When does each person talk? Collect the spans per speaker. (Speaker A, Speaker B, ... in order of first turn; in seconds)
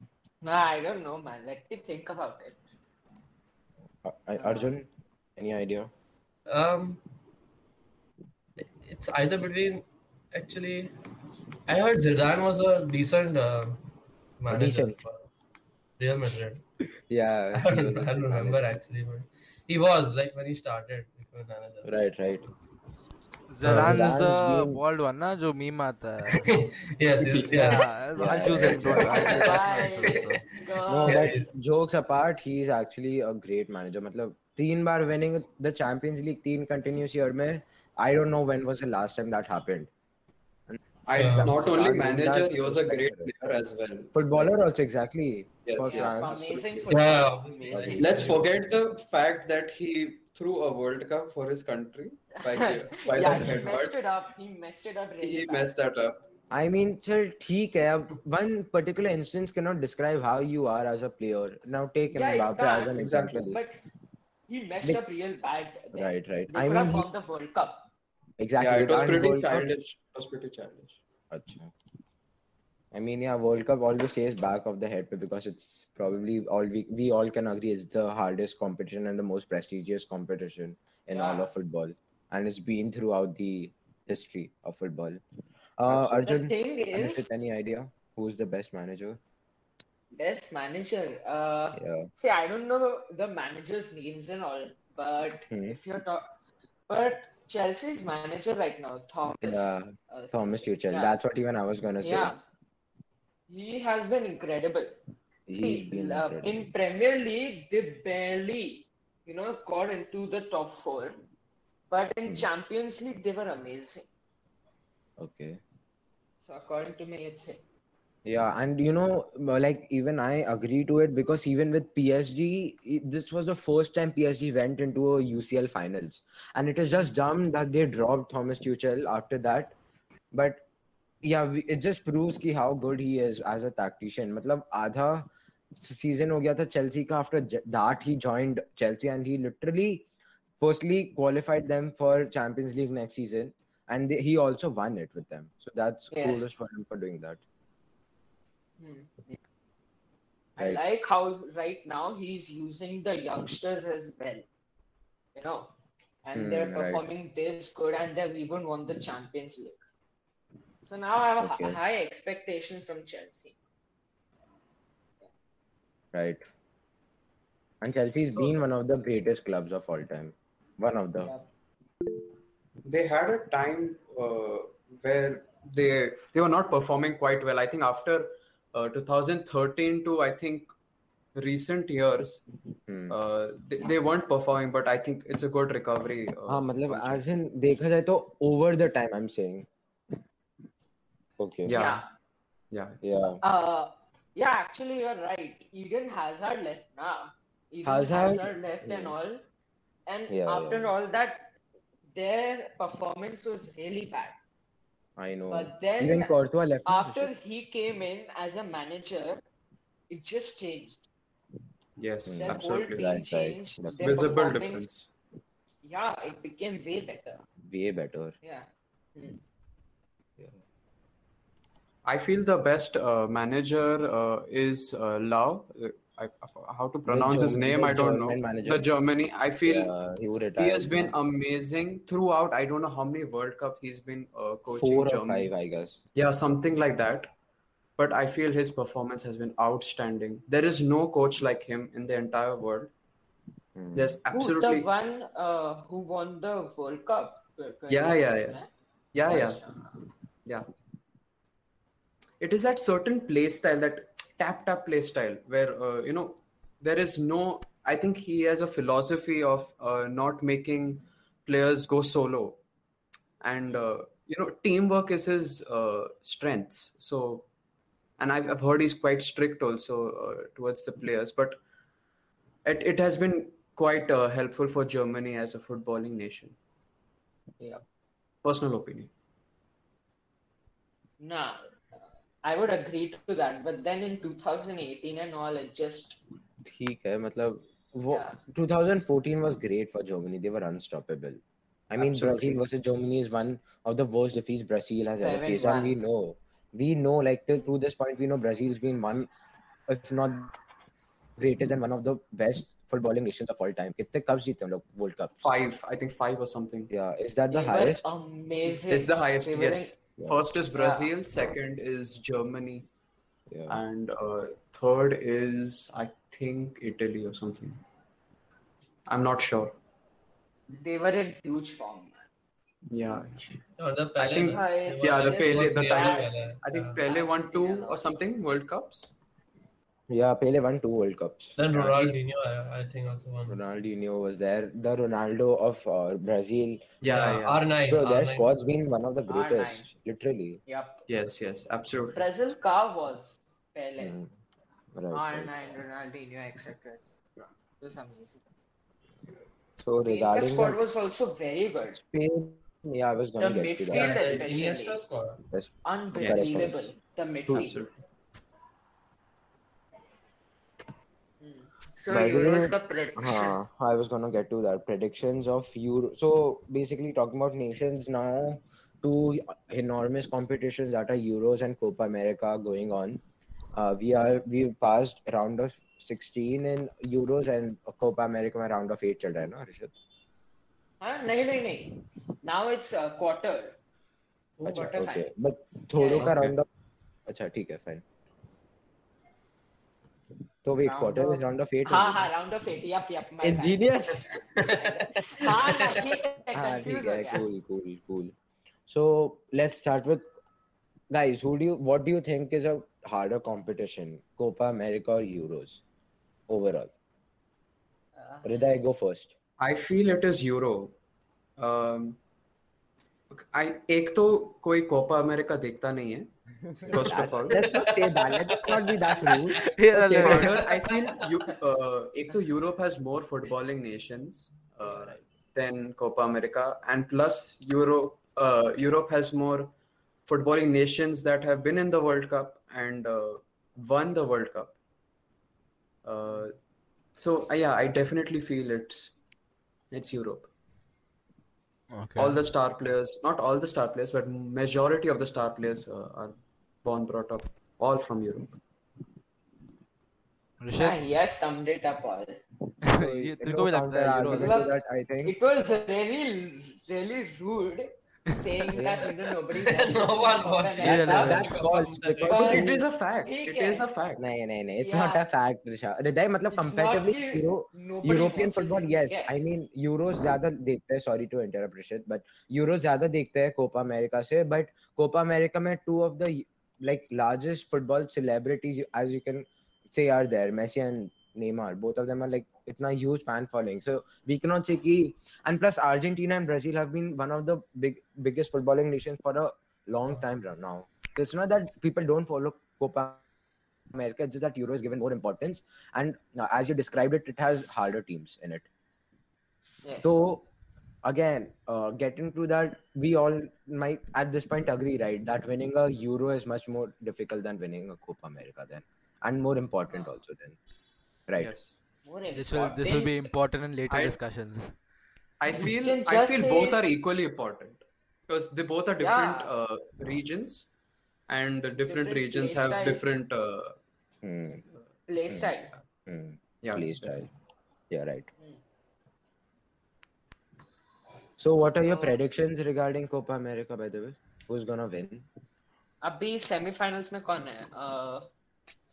Speaker A: 0.4-2.6, 4.4-4.7, 28.8-31.4, 45.8-48.4, 52.5-55.7, 62.1-63.8, 64.5-67.9, 81.1-81.5, 85.9-87.3, 90.1-96.3, 96.9-101.2, 102.0-102.4, 103.5-105.0, 105.5-111.2, 111.9-114.1, 116.4-117.6, 146.1-146.5, 148.8-149.4, 150.6-154.5, 155.3-155.7, 156.2-159.8, 160.8-163.6, 191.7-192.1, 193.4-199.4, 200.1-201.5, 202.1-204.4, 205.5-206.3, 206.9-209.4, 210.1-211.1, 212.4-214.9, 215.8-217.4, 218.4-219.4, 244.3-248.7, 249.3-250.0, 281.2-281.7, 282.4-286.2, 288.1-288.4, 295.2-296.0, 307.5-309.9, 310.7-311.1, 320.7-322.3, 323.1-323.5, 324.5-326.3, 327.0-328.2, 339.3-339.9, 340.7-341.0, 342.1-344.2, 345.1-348.4, 350.1-352.0, 353.4-355.0, 355.9-357.8, 361.4-363.6, 381.0-383.8, 384.6-385.3, 385.9-386.4, 390.8-397.4, 408.2-408.5, 420.4-421.5, 450.8-452.4, 454.4-461.5, 462.3-463.8, 464.8-465.2, 466.5-469.3, 499.8-500.3, 512.0-513.2, 515.6-516.9, 519.0-519.5, 521.9-523.0, 525.1-525.8, 531.9-532.2, 536.0-538.3
Speaker B: 4.0-5.9, 14.5-15.0, 17.1-18.7, 21.9-22.5, 23.6-24.8, 28.2-29.5, 30.9-39.9, 40.7-43.5, 44.1-48.5, 56.5-63.6, 65.9-67.1, 68.4-69.7, 71.3-71.7, 72.9-85.2, 85.8-89.2, 91.8-92.1, 95.5-95.8, 99.4-102.3, 105.5-106.5, 115.2-115.6, 118.2-129.8, 130.3-130.7, 131.2-140.1, 140.6-147.4, 156.3-157.0, 161.4-161.8, 166.1-166.4, 167.8-171.3, 182.9-183.2, 186.5-189.7, 191.4-191.8, 193.0-193.4, 197.8-199.1, 200.3-200.9, 205.2-207.3, 212.3-214.4, 217.7-218.4, 227.1-228.9, 229.7-231.1, 234.7-236.0, 243.8-244.2, 286.6-291.4, 291.9-299.3, 299.9-300.5, 301.4-305.5, 306.9-308.1, 310.2-310.4, 313.5-313.8, 330.1-332.2, 333.5-336.9, 337.9-340.6, 344.0-344.3, 344.9-345.7, 349.8-350.8, 352.0-354.3, 355.5-356.9, 357.5-357.7, 362.1-373.2, 373.7-379.9, 384.7-386.7, 387.3-388.0, 390.6-392.3, 393.4-394.3, 396.6-398.3, 398.9-400.3, 401.1-405.8, 406.5-406.9, 408.4-409.4, 416.8-419.6, 424.9-425.2, 452.9-455.3, 458.8-459.1, 460.9-462.8, 464.2-493.2, 493.9-498.7, 500.0-500.4, 501.0-510.6, 511.3-511.5, 524.2-524.6, 526.1-527.3, 527.9-528.3, 531.4-535.3
Speaker C: 6.5-7.0, 8.6-10.9, 11.7-13.8, 14.4-15.2, 16.0-16.6, 17.6-21.9, 23.7-24.0, 26.3-27.9, 28.9-30.5, 31.1-31.5, 41.2-41.5, 46.9-48.5, 323.8-327.0, 331.6-333.6, 337.1-338.5, 353.9-355.4, 394.6-396.1, 459.6-462.6
Speaker D: 23.5-26.7, 27.5-30.4, 419.6-420.6, 441.9-442.4, 450.6-451.0, 452.9-454.6, 460.8-461.4, 512.3-514.8
Speaker E: 41.1-44.6, 45.7-46.4, 48.0-54.0, 55.2-56.2, 63.0-63.5, 68.6-71.0, 172.8-180.7, 181.3-182.4, 183.1-187.3, 191.7-192.0, 192.7-193.0, 212.0-213.1, 214.0-215.1, 222.1-229.9, 230.6-235.5, 236.2-237.3, 238.0-242.9, 243.9-244.9, 247.9-248.6, 249.1-249.6, 252.4-262.6, 263.4-267.5, 268.2-271.6, 272.6-276.6, 278.4-279.1, 291.9-292.6, 305.4-306.9, 308.9-312.9, 313.7-317.8, 319.1-319.8, 322.9-323.4, 324.2-329.1, 337.0-337.6, 341.1-342.2, 356.2-356.7, 357.5-357.9, 409.6-411.0, 411.6-412.2, 413.3-416.3, 416.9-417.6, 419.9-429.7, 430.3-434.8, 436.0-436.5, 437.1-439.1, 439.9-440.5, 442.2-448.6, 462.3-464.2, 511.4-511.7, 513.9-514.2, 515.4-520.7, 521.3-523.8, 526.6-527.1